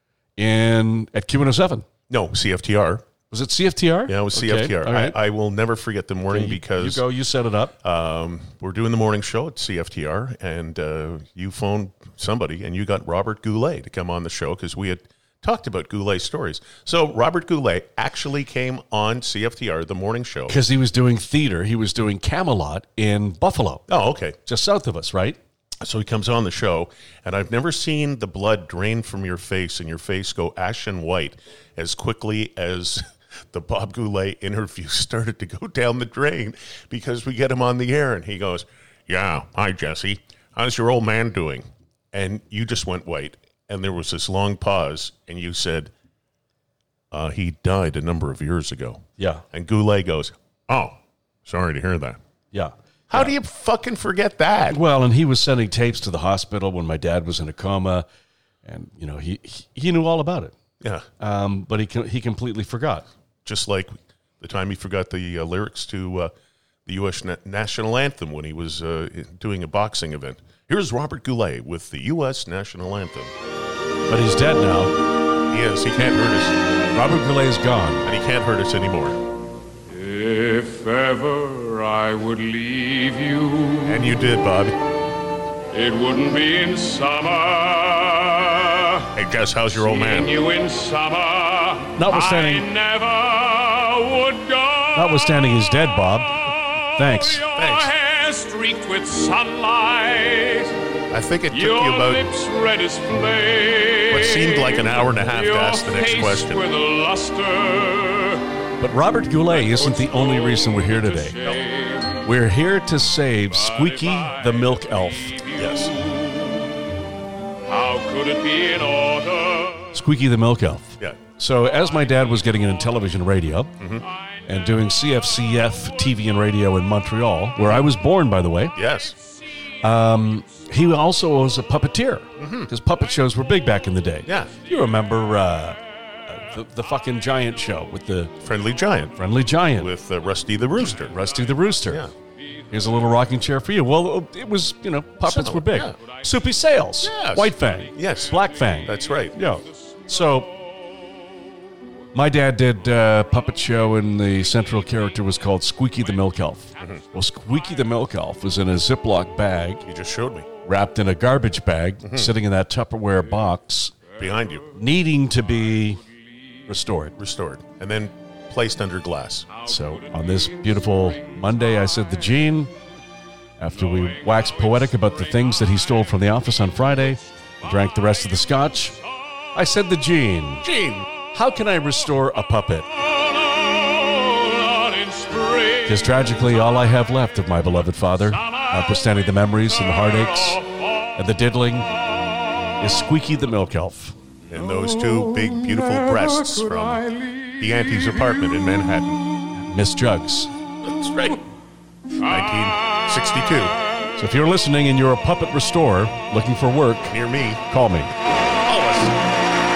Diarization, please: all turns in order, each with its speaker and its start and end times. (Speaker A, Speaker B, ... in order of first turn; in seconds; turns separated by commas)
Speaker A: 0.4-1.8, Speaker B: 2.1-3.0, Speaker A: 3.3-5.2, Speaker B: 4.1-7.0, Speaker A: 6.3-7.7, Speaker B: 7.8-20.6, Speaker A: 20.5-23.8, Speaker B: 23.9-24.4, Speaker A: 24.4-25.4, Speaker B: 25.8-45.9, Speaker B: 47.1-52.2, Speaker A: 49.2-49.4, Speaker A: 52.5-53.3, Speaker B: 53.1-54.8, Speaker A: 54.7-58.0, Speaker A: 58.6-60.5, Speaker B: 60.8-61.1, Speaker A: 61.2-63.0, Speaker B: 63.4-66.3, Speaker B: 66.8-73.3, Speaker A: 74.1-74.9, Speaker B: 75.5-76.7, Speaker A: 76.9-78.0, Speaker B: 78.0-79.2, Speaker C: 79.9-84.0, Speaker B: 83.8-84.8, Speaker C: 85.7-89.1, Speaker B: 89.1-90.4, Speaker C: 89.9-95.0, Speaker A: 91.9-92.7, Speaker A: 94.9-96.3, Speaker A: 96.9-97.5, Speaker B: 97.5-97.9, Speaker C: 97.6-100.8, Speaker B: 101.1-102.3, Speaker C: 101.5-108.5, Speaker B: 104.1-106.7, Speaker A: 108.8-111.4, Speaker C: 109.7-112.2, Speaker A: 112.2-115.4, Speaker C: 113.8-114.6, Speaker C: 115.4-116.9, Speaker B: 115.5-116.0, Speaker C: 117.7-119.9, Speaker A: 119.9-123.7, Speaker B: 123.8-124.0, Speaker A: 124.4-128.8, Speaker B: 128.7-129.2, Speaker A: 129.8-138.3, Speaker B: 132.4-132.7, Speaker B: 134.2-134.5, Speaker B: 138.4-139.1, Speaker A: 139.1-139.9, Speaker B: 139.8-142.1, Speaker A: 141.1-142.1, Speaker A: 142.7-150.5, Speaker B: 145.2-146.0, Speaker B: 147.0-149.4, Speaker A: 152.1-159.8, Speaker B: 159.8-160.5, Speaker A: 160.6-164.0, Speaker B: 162.0-162.3, Speaker B: 164.2-164.8, Speaker A: 164.7-166.0, Speaker A: 166.7-167.2, Speaker B: 167.2-169.5, Speaker A: 169.6-172.7, Speaker A: 173.6-179.0, Speaker A: 179.5-180.7, Speaker B: 180.6-181.1, Speaker A: 181.3-182.9, Speaker C: 183.8-186.1, Speaker A: 185.8-192.0, Speaker A: 192.8-194.2, Speaker B: 194.5-199.2, Speaker A: 199.7-200.5, Speaker B: 200.8-201.4, Speaker B: 202.2-203.8, Speaker A: 204.1-207.2, Speaker B: 207.1-207.6, Speaker A: 207.7-208.1, Speaker B: 208.5-209.2